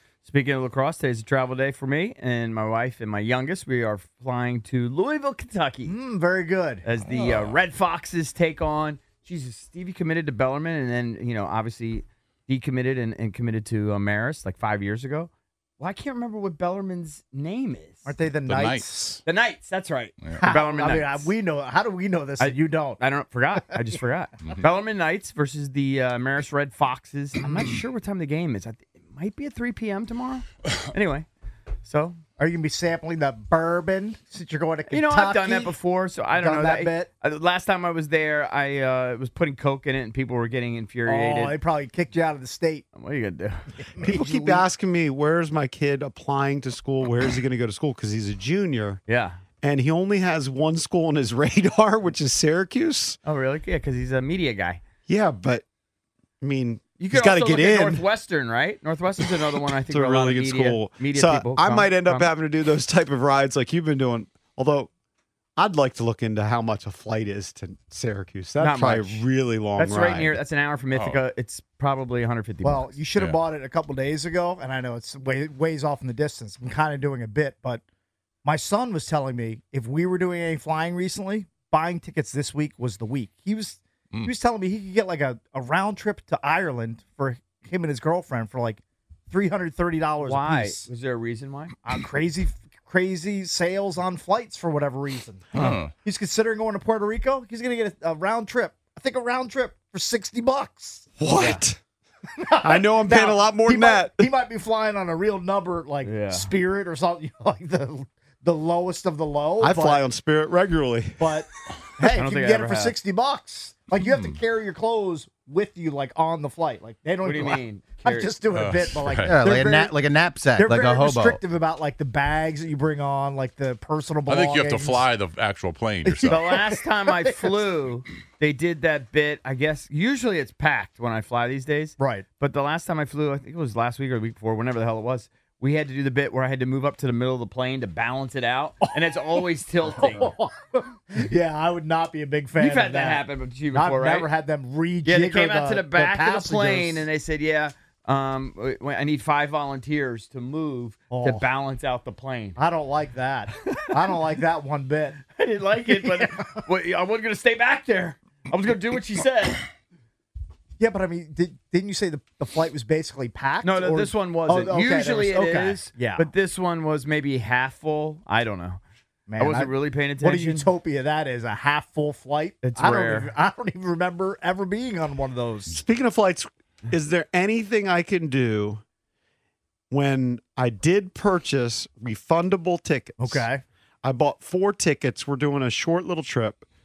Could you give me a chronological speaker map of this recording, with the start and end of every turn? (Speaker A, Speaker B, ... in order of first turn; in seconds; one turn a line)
Speaker A: 0.2-5.9
Speaker B: 5.8-6.8
Speaker A: 6.8-18.1
Speaker C: 7.2-7.5
Speaker B: 18.1-19.2
Speaker C: 18.4-19.1
Speaker A: 19.2-21.3
Speaker C: 20.2-20.5
Speaker B: 20.4-23.0
Speaker A: 22.4-31.3
Speaker A: 31.9-32.2
Speaker B: 32.4-35.8
Speaker A: 34.9-41.5
Speaker B: 36.4-37.1
Speaker B: 41.0-42.9
Speaker A: 42.9-43.9
Speaker B: 44.0-44.6
Speaker D: 44.0-49.0
Speaker A: 49.1-49.4
Speaker D: 49.6-53.2
Speaker A: 53.2-54.8
Speaker D: 55.1-55.6
Speaker D: 56.4-58.0
Speaker A: 57.0-62.3
Speaker D: 59.9-64.9
Speaker D: 65.6-70.3
Speaker A: 68.6-69.2
Speaker A: 69.8-72.9
Speaker C: 70.9-71.2
Speaker B: 72.6-77.8
Speaker B: 78.4-90.9
Speaker A: 90.2-91.7
Speaker B: 91.8-101.1
Speaker C: 95.5-95.9
Speaker D: 101.2-101.8
Speaker B: 102.4-110.0
Speaker D: 102.6-104.3
Speaker A: 106.0-106.5
Speaker D: 109.6-111.3
Speaker B: 111.2-120.0
Speaker A: 112.0-112.9
Speaker A: 117.2-118.3
Speaker C: 118.5-119.4
Speaker E: 119.2-121.4
Speaker B: 120.5-125.1
Speaker C: 124.3-126.5
Speaker B: 126.0-127.7
Speaker A: 126.3-140.3
Speaker B: 132.0-132.2
Speaker B: 139.9-147.1
Speaker A: 142.6-144.3
Speaker A: 145.0-152.6
Speaker B: 151.1-151.4
Speaker B: 152.6-155.2
Speaker A: 155.4-159.6
Speaker B: 155.8-156.6
Speaker B: 160.8-166.3
Speaker A: 163.6-168.8
Speaker B: 169.3-175.8
Speaker A: 169.4-170.7
Speaker A: 172.6-173.3
Speaker D: 175.7-178.8
Speaker D: 179.9-183.5
Speaker B: 183.2-183.6
Speaker D: 184.0-186.6